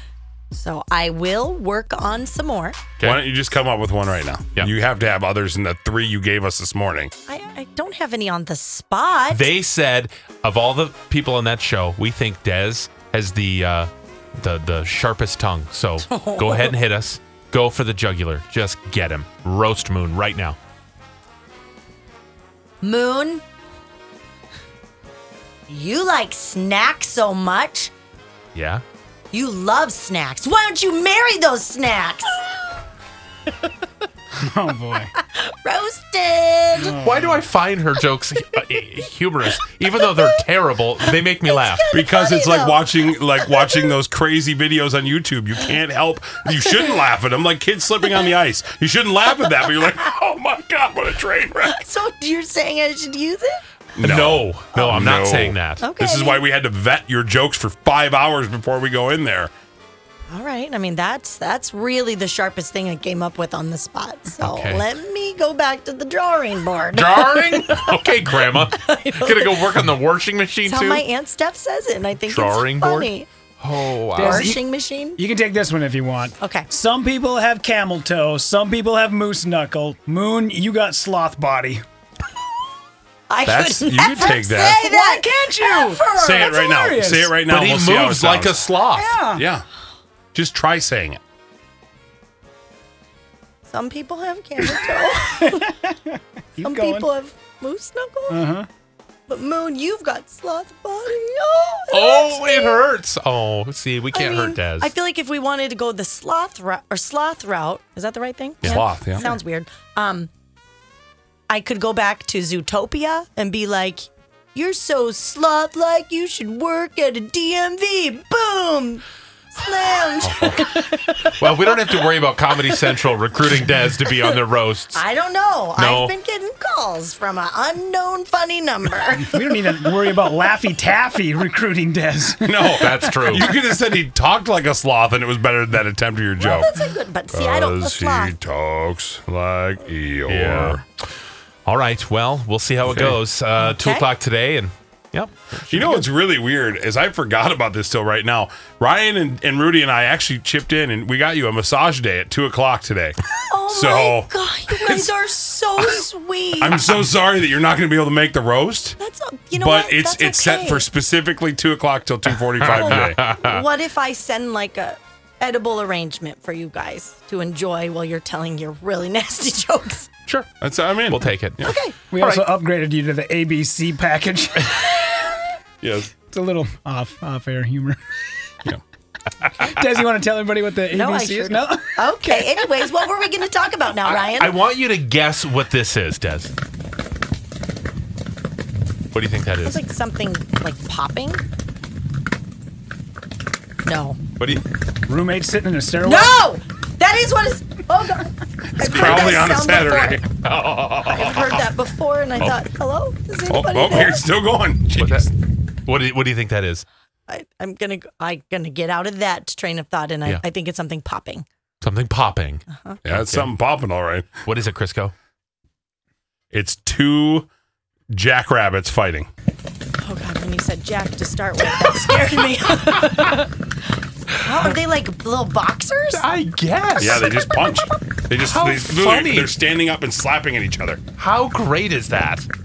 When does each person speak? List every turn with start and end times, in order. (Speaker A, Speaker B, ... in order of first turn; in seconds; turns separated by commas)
Speaker A: 0.5-2.8, Speaker B: 3.0-7.1, Speaker A: 7.3-9.5, Speaker C: 9.3-20.6, Speaker A: 16.1-16.7, Speaker A: 22.8-23.4, Speaker A: 25.7-27.9, Speaker C: 28.6-28.8, Speaker A: 29.3-32.4, Speaker D: 34.4-35.1, Speaker A: 35.2-37.0, Speaker D: 36.9-37.2, Speaker C: 37.0-41.8, Speaker A: 41.5-42.9, Speaker B: 41.9-51.8, Speaker A: 51.8-53.6, Speaker B: 54.0-59.5, Speaker C: 54.0-55.8, Speaker A: 55.8-56.4, Speaker A: 60.3-69.9, Speaker C: 64.4-64.8, Speaker C: 66.9-71.1, Speaker A: 70.7-73.3, Speaker C: 72.3-74.5, Speaker D: 74.2-74.6, Speaker A: 74.2-75.2, Speaker D: 75.2-81.8, Speaker A: 76.4-76.7, Speaker A: 83.3-86.7, Speaker B: 83.5-84.8, Speaker D: 84.7-87.3, Speaker B: 86.2-88.7, Speaker C: 87.4-89.3, Speaker D: 88.9-89.5, Speaker B: 89.3-89.6, Speaker B: 90.3-91.2, Speaker A: 93.7-95.8, Speaker D: 95.3-97.1, Speaker A: 96.6-98.5, Speaker D: 98.3-98.7, Speaker A: 99.3-102.8, Speaker C: 101.9-104.9, Speaker A: 104.1-110.3, Speaker C: 108.6-109.2, Speaker B: 108.6-109.3, Speaker A: 111.5-119.0, Speaker A: 119.5-121.2, Speaker C: 121.3-125.0, Speaker A: 124.9-129.5, Speaker C: 125.8-126.1, Speaker D: 129.3-132.8, Speaker B: 132.4-136.7, Speaker C: 132.8-133.6, Speaker A: 136.4-138.4, Speaker B: 137.3-140.8, Speaker C: 140.3-140.8, Speaker C: 141.7-146.1, Speaker B: 142.8-143.2, Speaker A: 143.6-144.1, Speaker B: 145.7-153.2, Speaker A: 153.5-156.8, Speaker B: 153.7-155.1, Speaker B: 156.6-159.0, Speaker A: 159.0-160.9, Speaker B: 159.6-163.2, Speaker C: 162.6-163.6, Speaker A: 162.8-170.1, Speaker B: 170.6-171.7, Speaker C: 171.1-171.6, Speaker A: 171.6-171.9, Speaker D: 172.1-175.0, Speaker C: 172.1-172.5, Speaker B: 175.8-176.1, Speaker D: 176.2-178.0, Speaker D: 179.6-182.5, Speaker A: 180.9-184.6, Speaker C: 184.1-186.5, Speaker C: 189.1-189.8, Speaker A: 189.6-191.4, Speaker A: 193.8-194.2, Speaker C: 194.4-194.6, Speaker D: 195.1-196.4, Speaker A: 196.0-200.2, Speaker B: 198.8-201.4, Speaker C: 198.9-199.4, Speaker A: 201.1-204.2, Speaker B: 203.5-205.3, Speaker C: 205.0-205.3, Speaker C: 205.9-206.8, Speaker A: 207.3-211.5, Speaker C: 211.8-213.5, Speaker A: 212.7-213.0, Speaker B: 213.1-214.3, Speaker C: 214.4-215.1, Speaker B: 216.5-217.5, Speaker B: 218.1-219.3, Speaker A: 220.0-223.5, Speaker A: 224.4-226.2, Speaker C: 226.1-227.3, Speaker B: 227.0-231.0, Speaker A: 227.0-227.4, Speaker C: 228.5-229.6, Speaker C: 231.2-232.5